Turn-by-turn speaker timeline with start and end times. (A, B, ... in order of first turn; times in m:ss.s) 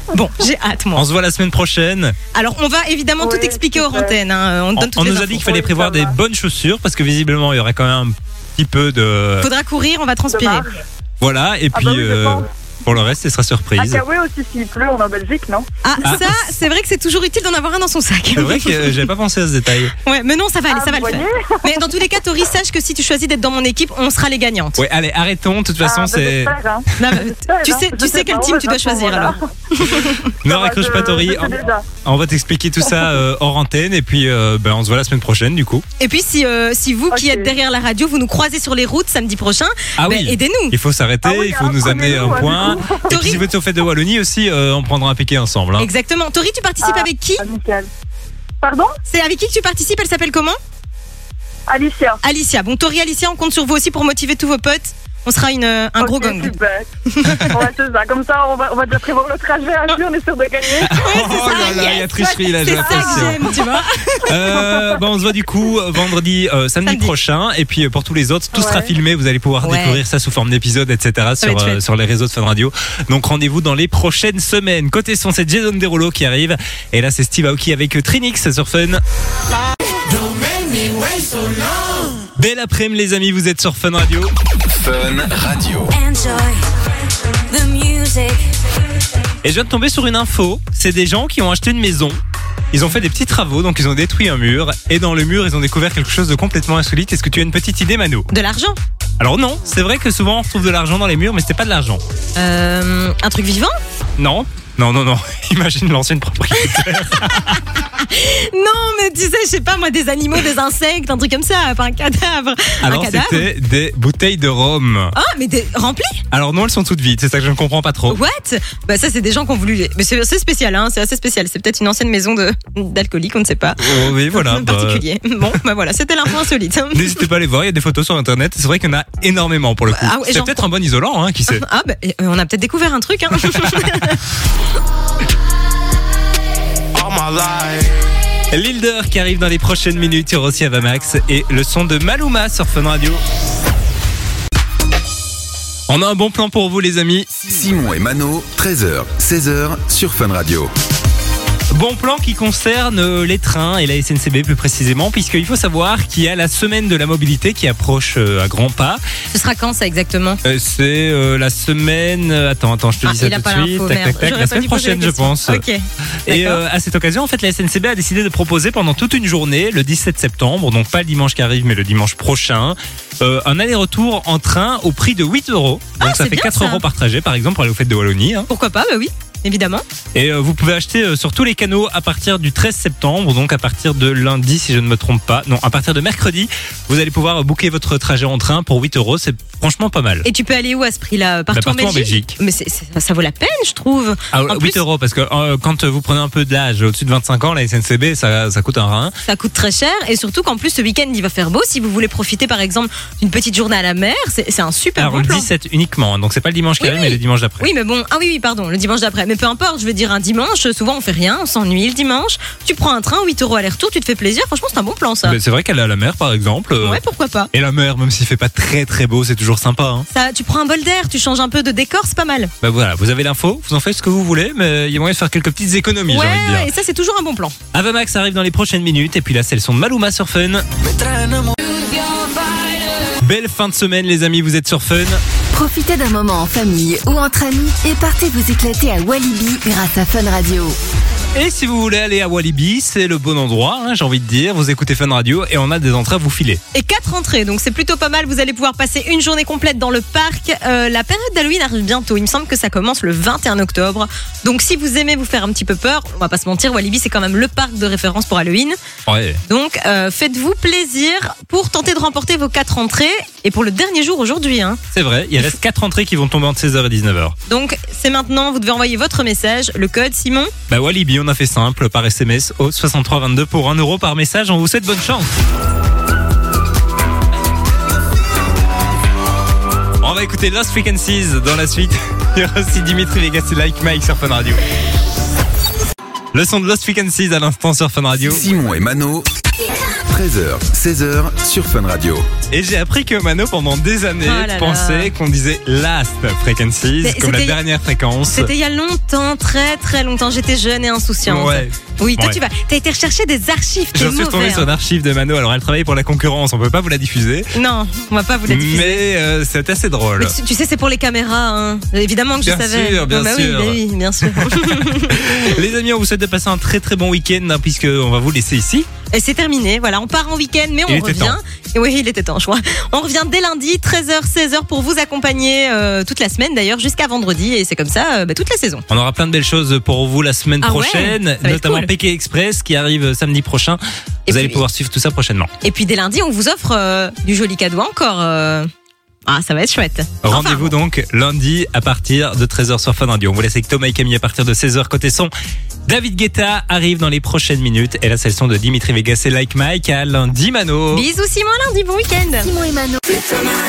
0:00.1-0:01.0 A
0:01.0-0:02.2 B
0:02.3-0:05.6 A
0:03.2-0:04.2 C
0:04.8-0:09.5 B
0:05.5-0:06.2 C
0:09.4-0:10.7 A
0:10.3-0:10.8 C
0:11.2-0:14.0 B
0:11.7-0:12.5 C
0:13.8-0:15.7 C
0:15.8-0:19.0 A
0:16.0-0:16.3 B
0:18.4-0:19.9 B
0:20.0-0:24.8 A
0:20.7-0:21.7 C
0:24.8-0:27.2 B
0:25.8-0:29.4 C
0:27.0-0:30.3 A
0:30.4-0:35.8 B
0:30.4-0:31.8 C
0:36.0-0:40.8 A
0:37.1-0:37.5 C
0:40.0-0:45.9 B
0:41.2-0:43.1 C
0:43.0-0:43.4 A
0:45.8-0:47.4 A
0:46.8-0:47.9 C
0:48.6-0:48.9 C
0:49.1-0:50.6 A
0:51.7-0:52.2 C
0:52.2-0:56.5 A
0:56.0-0:56.9 C
0:57.1-0:57.6 A
0:57.5-1:01.1 C
1:00.8-1:19.0 B
1:00.8-1:04.8 A
1:02.8-1:03.1 C
1:06.8-1:07.1 A
1:08.5-1:08.9 C
1:09.6-1:10.0 A
1:11.4-1:11.8 A
1:22.4-1:24.3 B
1:24.7-1:26.4 D
1:26.0-1:26.4 E
1:27.5-1:28.4 E
1:29.4-1:32.2 B
1:32.7-1:38.3 B
1:38.3-1:38.8 A
1:39.2-1:42.0 B
1:42.4-1:43.8 A
1:44.2-1:47.6 B
1:47.1-1:53.5 A
1:52.8-1:55.1 B
1:55.2-1:56.2 A
1:56.3-1:58.2 B
1:58.1-2:07.2 A
2:03.8-2:05.0 B
2:06.9-2:11.6 B
2:09.9-2:10.7 A
2:11.5-2:14.2 A
2:18.5-2:23.2 B
2:25.9-2:27.4 B
2:27.4-2:30.7 D
2:31.7-2:39.0 B
2:39.3-2:40.4 A
2:40.4-2:45.6 B
2:43.0-2:46.6 A
2:46.3-2:58.5 B
2:56.0-2:56.8 A
2:58.5-2:59.8 A
3:00.1-3:10.3 B
3:10.2-3:14.8 A
3:11.5-3:12.4 B
3:14.3-3:19.2 B
3:19.3-3:25.5 A
3:25.0-3:27.7 B
3:26.8-3:35.4 A
3:35.2-3:37.0 B
3:36.8-3:37.5 A
3:37.5-3:40.1 B
3:40.1-3:42.5 A
3:42.6-3:46.7 B
3:46.1-3:47.6 A
3:47.7-3:50.7 B
3:51.8-3:52.7 E
3:53.2-3:55.2 B
3:55.5-4:00.8 F
4:01.4-4:06.6 B
4:06.7-4:18.8 A
4:19.1-4:19.4 B
4:19.5-4:24.8 A
4:24.9-4:27.4 B
4:27.5-4:30.5 A
4:30.7-4:35.3 B
4:40.0-4:44.6 B
4:46.3-4:48.4 B
4:48.2-4:49.3 D
4:49.9-4:52.3 D
4:52.5-4:58.5 B
4:54.2-4:55.1 A
4:57.0-4:57.6 A
4:58.3-5:04.7 A
5:01.2-5:02.4 B
5:03.9-5:07.5 B
5:07.5-5:09.0 A
5:08.5-5:10.3 B
5:10.2-5:15.2 A
5:12.4-5:18.9 B
5:19.1-5:28.8 A
5:20.9-5:21.4 B
5:28.9-5:35.5 B
5:30.6-5:31.9 A
5:34.3-5:34.6 A
5:35.6-5:38.7 A
5:39.3-5:40.8 A
5:40.2-5:45.3 B
5:45.9-5:51.0 B
5:50.9-5:52.5 A
5:52.4-5:53.5 F